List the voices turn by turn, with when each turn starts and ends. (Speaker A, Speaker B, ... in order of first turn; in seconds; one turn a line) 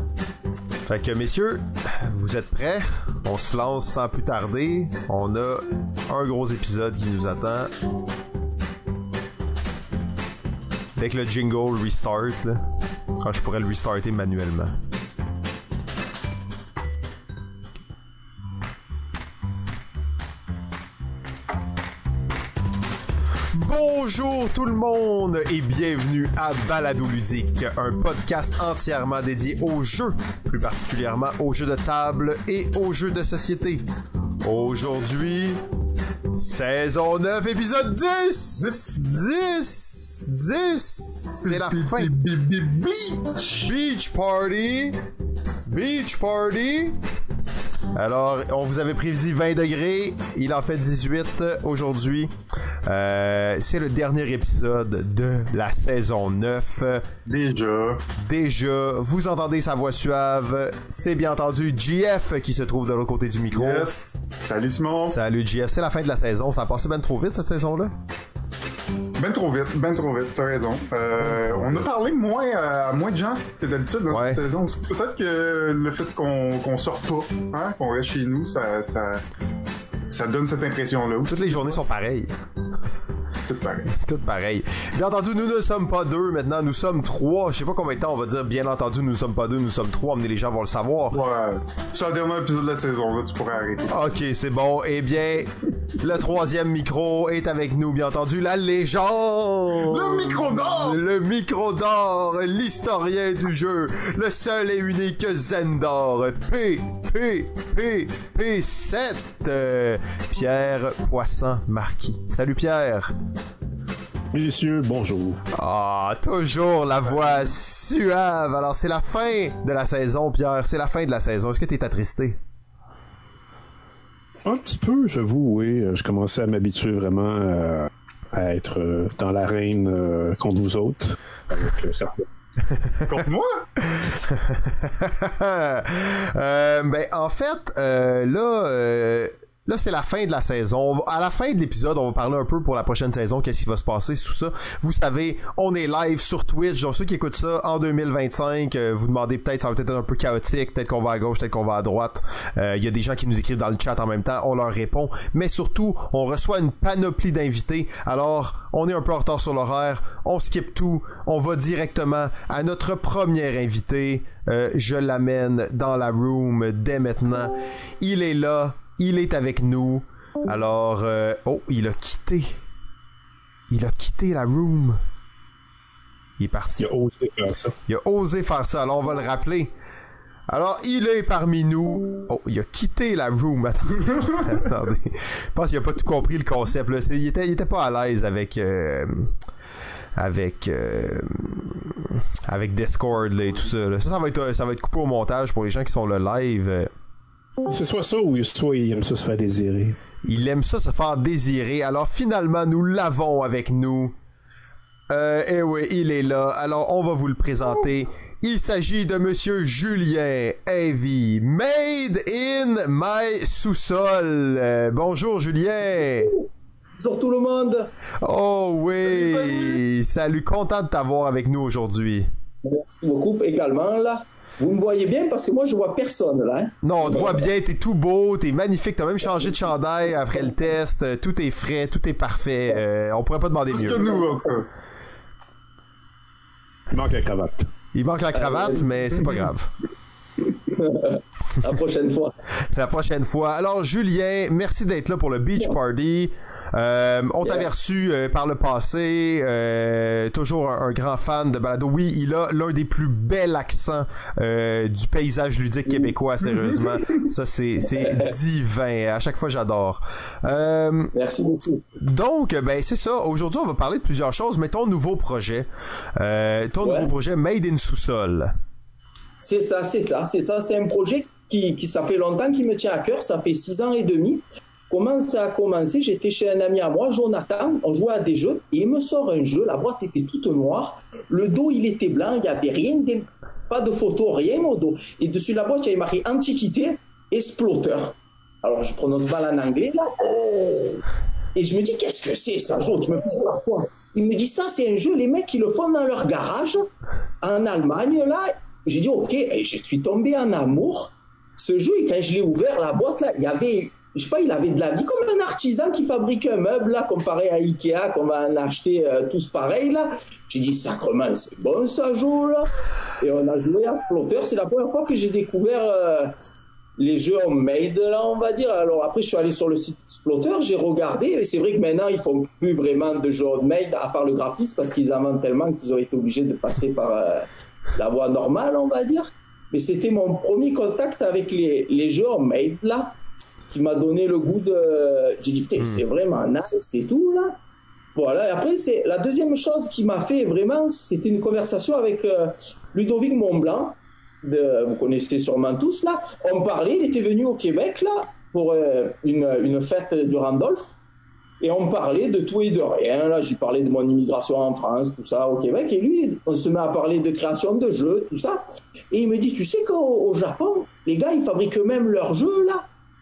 Speaker A: 0.9-7.7
Speaker A: 10.9-12.6
Speaker A: 13.2-14.7
Speaker A: 23.5-33.8
Speaker A: 34.4-35.6
Speaker A: 36.3-42.1
Speaker B: 38.6-39.0
Speaker B: 41.4-43.7
Speaker A: 43.6-45.0
Speaker A: 45.7-47.0
Speaker A: 47.9-52.3
Speaker A: 52.9-57.1
Speaker B: 57.3-58.0
Speaker A: 58.2-63.9
Speaker B: 63.5-65.2
Speaker A: 65.1-67.9
Speaker B: 69.2-79.2
Speaker A: 71.2-71.8
Speaker A: 74.1-74.4
Speaker B: 80.1-81.8
Speaker A: 81.3-82.3
Speaker B: 83.5-83.9
Speaker A: 83.9-91.2
Speaker B: 91.1-94.0
Speaker A: 93.9-113.1
Speaker B: 99.8-101.0
Speaker C: 114.3-115.4
Speaker A: 115.5-122.4
Speaker C: 124.4-132.2
Speaker B: 133.0-133.6
Speaker A: 133.9-172.6
Speaker A: 173.7-175.0
Speaker A: 176.4-176.9
Speaker C: 176.8-177.8
Speaker A: 177.9-179.7
Speaker A: 180.5-189.3
Speaker A: 190.2-196.9
Speaker C: 197.7-200.0
Speaker A: 200.2-204.2
Speaker A: 205.1-216.3
Speaker D: 217.0-217.9
Speaker A: 218.2-222.3
Speaker B: 219.2-219.8
Speaker D: 222.6-227.4
Speaker A: 226.8-234.1
Speaker B: 233.7-234.7
Speaker C: 236.9-237.7
Speaker A: 237.9-239.7
Speaker D: 238.3-238.8
Speaker D: 240.5-242.3
Speaker A: 242.7-261.1
Speaker D: 247.4-247.7
Speaker D: 257.9-258.3
Speaker D: 261.1-261.8
Speaker A: 261.9-268.5
Speaker D: 266.8-267.1
Speaker D: 269.4-291.0
Speaker D: 291.5-296.9
Speaker D: 297.4-312.7
Speaker D: 313.2-316.3
Speaker D: 317.0-333.1
Speaker D: 333.7-337.6
Speaker D: 338.1-350.9
Speaker D: 351.6-362.9